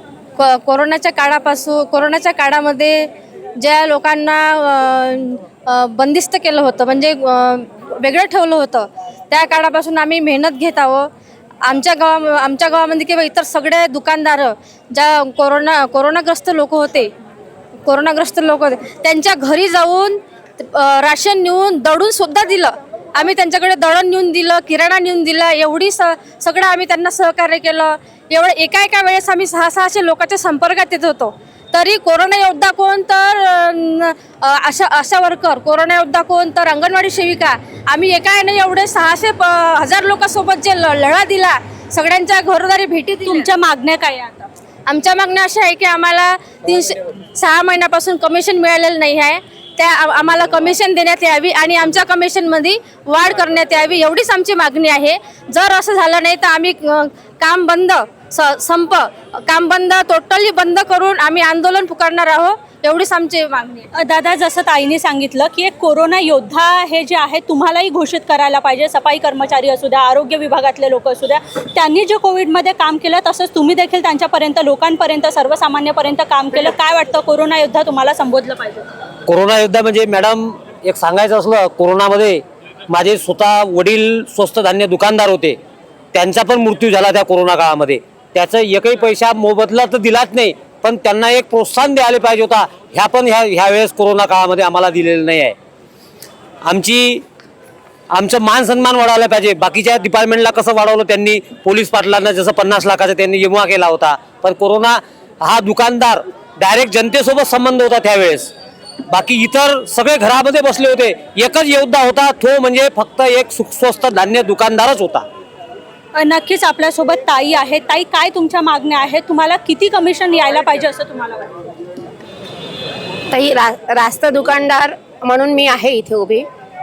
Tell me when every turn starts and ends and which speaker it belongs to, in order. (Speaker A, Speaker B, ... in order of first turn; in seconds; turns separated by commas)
Speaker A: 0.4-11.1, Speaker A: 11.6-17.1, Speaker A: 17.9-43.5, Speaker B: 43.2-44.5, Speaker A: 44.9-63.9, Speaker B: 63.9-78.9, Speaker C: 79.2-85.6, Speaker C: 86.1-95.5, Speaker C: 96.6-97.2, Speaker C: 98.1-108.5, Speaker C: 109.1-115.3, Speaker B: 116.1-121.6, Speaker D: 123.3-126.5